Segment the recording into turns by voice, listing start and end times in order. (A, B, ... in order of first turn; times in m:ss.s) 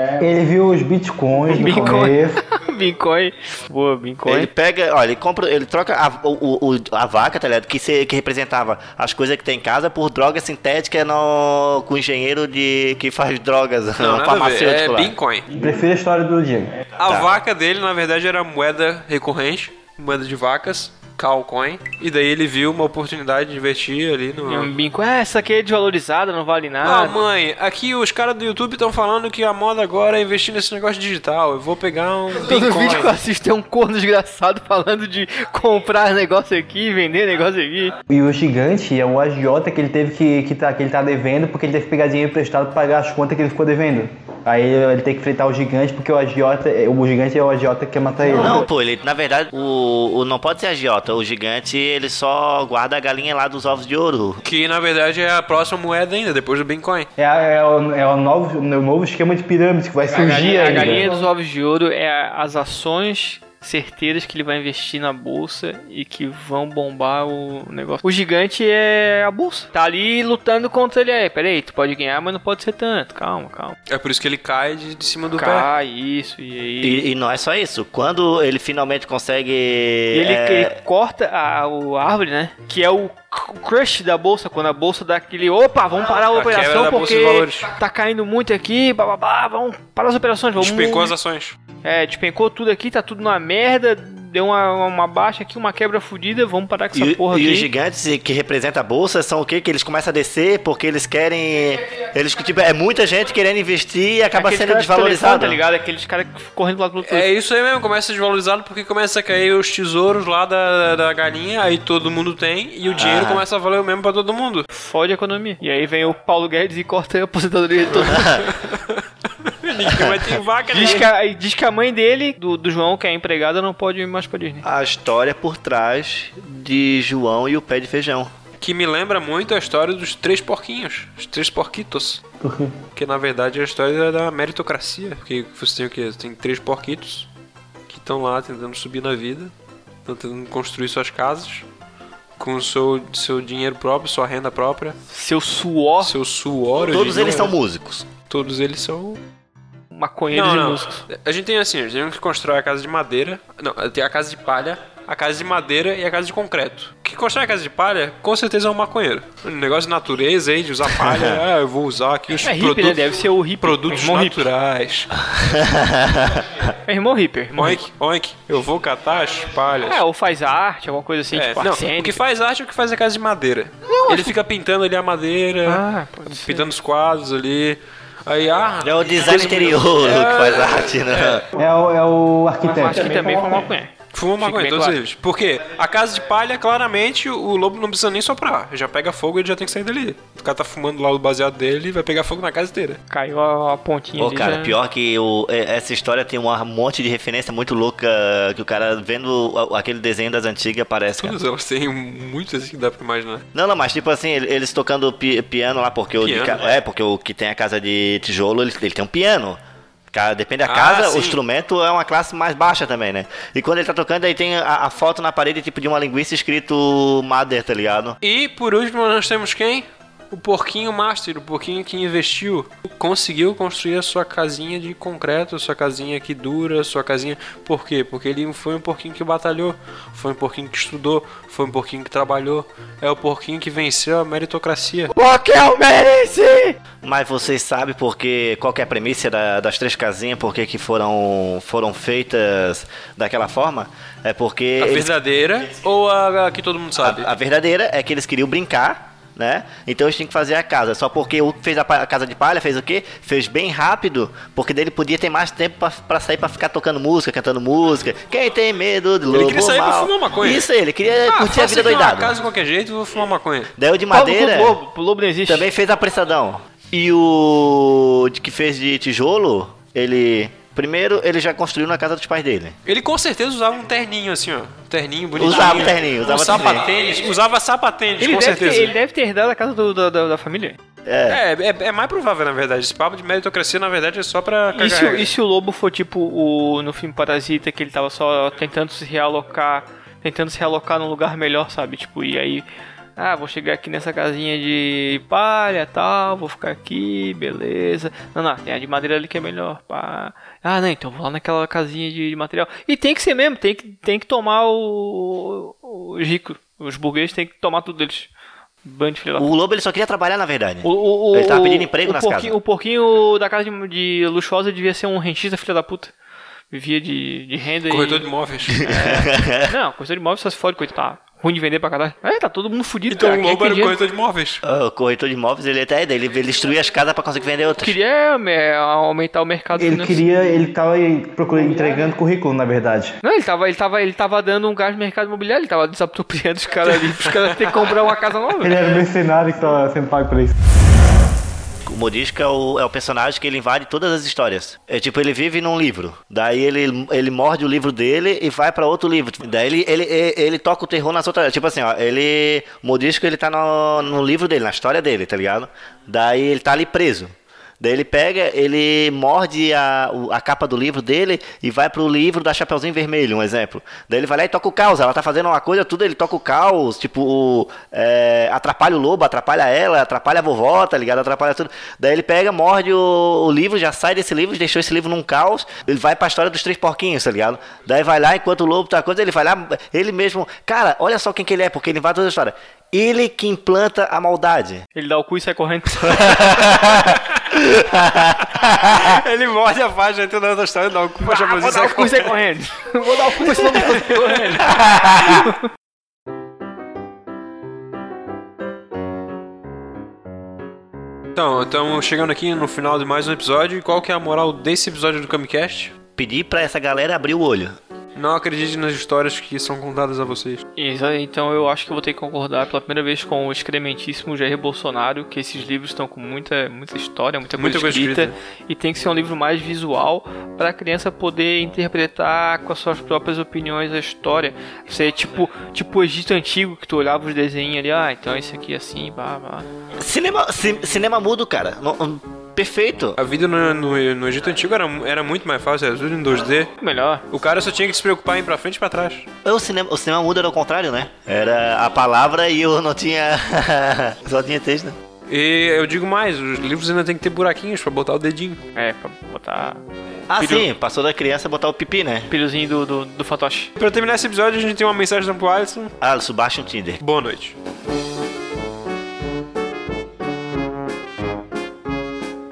0:00.2-0:02.4 A
0:01.5-0:04.5 B
0:04.3-0:15.1 C
0:14.0-0:15.5 D
0:15.5-0:16.7 A
0:17.0-0:24.7 D
0:24.4-0:27.2 B
0:26.8-0:33.2 D
0:32.3-0:38.0 B
0:38.1-0:48.7 A
0:48.4-0:54.4 C
0:54.4-0:57.1 D
0:57.2-1:01.2 A
1:00.1-1:13.8 B
1:13.9-1:15.7 D
1:15.4-1:17.0 B
1:16.8-1:20.8 C
1:20.1-1:31.1 B
1:26.3-1:27.7 D
1:30.6-1:31.6 D
1:31.8-1:37.7 B
1:36.9-1:45.6 C
1:44.3-1:47.3 B
1:47.0-1:54.7 D
1:53.0-1:53.4 C
1:54.7-1:58.4 B
1:57.9-2:01.1 D
1:58.0-1:58.5 C
1:59.9-2:00.2 C
2:00.7-2:04.6 B
2:04.6-2:08.3 C
2:08.6-2:12.2 D
2:12.5-2:12.7 A
2:13.0-2:17.3 D
2:17.9-2:19.5 D
2:20.0-2:21.7 D
2:22.4-2:25.0 D
2:25.1-2:26.1 B
2:26.0-2:27.6 D
2:26.8-2:28.1 C
2:28.2-2:29.2 D
2:29.9-2:31.0 B
2:30.3-2:45.1 D
2:41.0-2:41.3 C
2:42.4-2:44.5 B
2:45.3-2:46.5 C
2:46.8-2:47.8 B
2:47.5-2:50.0 D
2:49.9-2:52.2 B
2:51.3-3:01.4 D
2:53.9-2:54.3 B
2:55.6-2:56.7 B
2:58.8-3:01.4 C
3:01.6-3:03.7 A
3:02.6-3:05.0 B
3:04.1-3:13.0 D
3:13.1-3:14.8 B
3:14.2-3:21.4 C
3:21.2-3:23.4 D
3:23.5-3:29.6 C
3:26.2-3:26.6 D
3:30.1-3:38.2 C
3:30.6-3:31.4 D
3:38.2-3:55.1 D
3:55.1-4:05.1 C
4:04.8-4:07.3 D
4:07.0-4:22.4 C
4:19.3-4:20.7 D
4:21.2-4:23.7 D
4:23.8-4:24.8 C
4:24.1-4:25.7 B
4:25.5-4:32.8 C
4:32.9-4:38.9 D
4:35.4-4:36.9 C
4:38.2-4:40.8 B
4:41.1-4:41.4 C
4:41.3-4:45.3 D
4:44.8-4:52.7 B
4:53.2-5:08.3 B
5:08.8-5:09.5 B
5:09.4-5:12.6 C
5:10.8-5:16.1 B
5:16.7-5:24.0 B
5:17.9-5:18.8 D
5:18.7-5:19.7 C
5:23.1-5:24.6 D
5:24.6-5:28.0 C
5:27.8-5:30.2 B
5:29.8-5:33.2 A
5:33.2-5:38.8 B
5:38.6-5:40.6 A
5:41.8-6:24.8 C
6:25.0-6:26.6 B
6:26.0-6:29.2 C
6:28.8-6:32.3 D
6:31.2-6:35.6 B
6:33.5-6:34.5 D
6:34.7-6:35.4 C
6:41.4-6:45.9 D
6:46.2-6:47.8 C
6:48.2-6:50.6 D
6:50.8-7:09.7 B
6:57.6-6:58.3 D
7:10.0-7:13.2 C
7:13.2-7:16.7 D
7:16.8-7:17.2 B
7:17.3-7:19.3 D
7:19.4-7:25.0 C
7:25.3-7:28.6 D
7:28.8-7:29.8 B
7:30.3-7:32.3 C
7:32.3-7:33.7 B
7:33.8-7:35.9 D
7:36.0-7:37.0 C
7:37.0-7:37.6 D